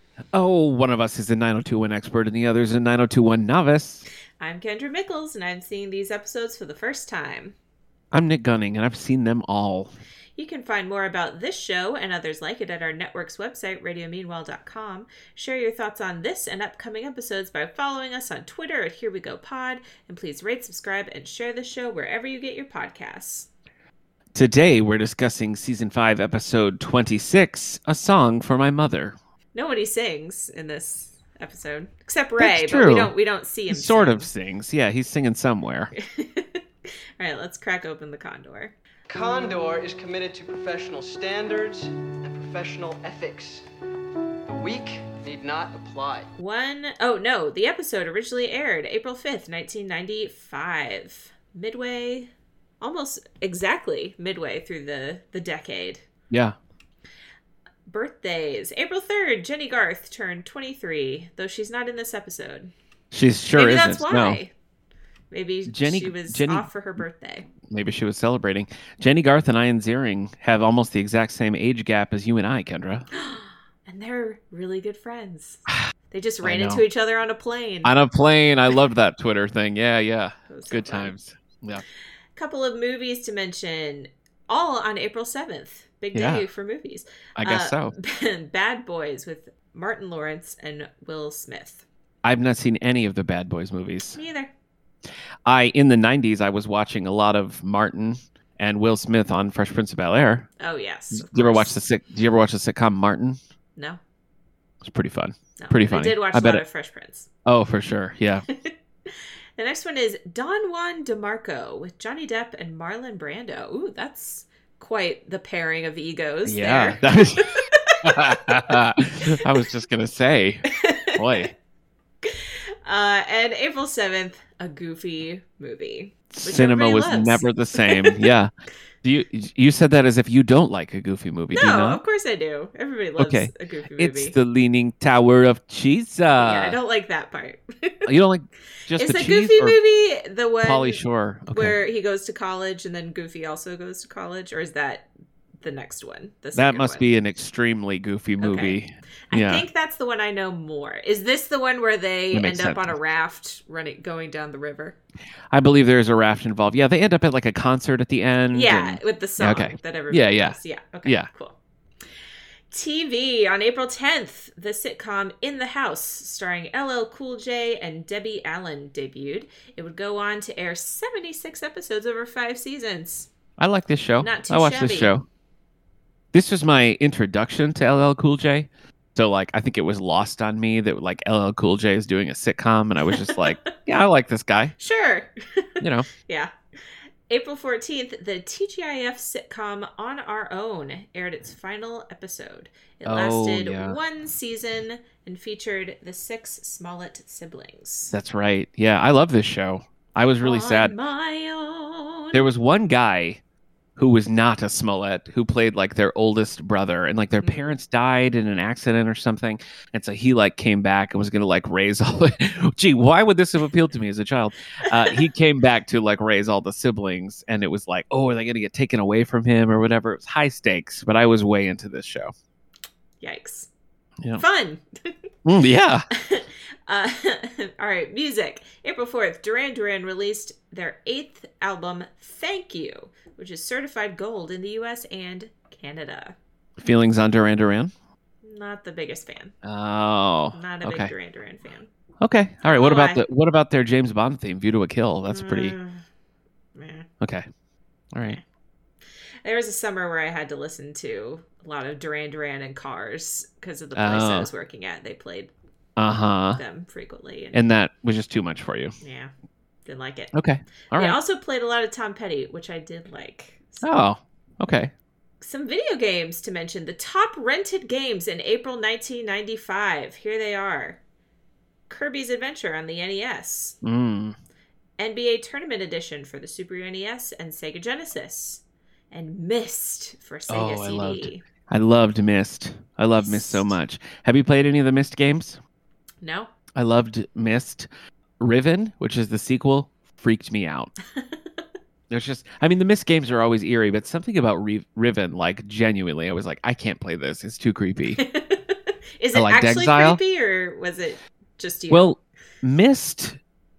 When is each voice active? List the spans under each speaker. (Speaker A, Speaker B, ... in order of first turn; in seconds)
Speaker A: 0.3-4.0, 8.1-9.9, 24.3-29.1, 32.4-33.1, 33.7-35.9, 56.3-56.6, 63.1-64.4, 65.7-66.7, 67.6-73.1, 76.4-76.8, 77.8-81.8, 86.1-86.5, 87.4-87.9, 92.2-94.2, 95.5-100.5, 101.1-103.4, 104.8-106.6, 107.5-108.4, 116.5-121.5, 126.3-128.5, 129.0-132.0, 133.2-136.8, 138.1-139.8, 140.6-141.8, 146.5-149.6, 152.3-152.9, 155.5-161.3, 173.6-175.2, 176.3-184.8, 185.8-186.1, 193.0-194.0, 198.1-200.9, 202.3-203.4, 204.0-222.3, 225.4-226.1, 236.8-237.9, 239.6-241.1, 242.2-245.8, 247.2-247.4, 248.1-248.4, 253.9-254.5, 256.0-256.6, 257.5-258.9, 260.3-261.2, 263.8-264.9, 273.8-274.4, 280.5-285.6, 286.8-287.9, 288.4-290.9, 292.1-298.2, 299.3-300.2, 301.9-303.4
Speaker B: 4.4-7.5, 10.4-23.5, 29.5-34.3, 35.9-36.6, 37.2-38.7, 46.4-56.0, 57.9-62.7, 63.5-64.5, 65.3-67.5, 73.1-77.9, 80.5-81.1, 82.3-91.8, 94.1-94.5, 100.6-101.7, 105.6-107.3, 109.6-118.4, 120.8-121.4, 122.2-128.2, 131.5-134.3, 136.4-138.1, 138.9-141.0, 141.5-145.1, 145.6-147.0, 148.4-148.8, 149.3-155.0, 158.5-161.6, 162.7-173.3, 174.2-175.1, 183.1-183.7, 184.8-186.5, 187.3-198.1, 200.4-202.4, 207.4-207.7, 214.9-215.2, 223.2-223.7, 224.3-225.1, 226.1-236.3, 238.4-239.5, 240.5-241.9, 242.7-243.2, 245.3-246.0, 246.8-247.1, 249.4-255.5, 256.6-257.6, 259.0-259.3, 259.9-260.3, 260.9-263.9, 265.4-271.0, 271.9-273.8, 275.0-281.4, 283.2-283.7, 286.2-286.5, 298.1-302.1
Speaker C: 39.1-43.6, 44.5-46.3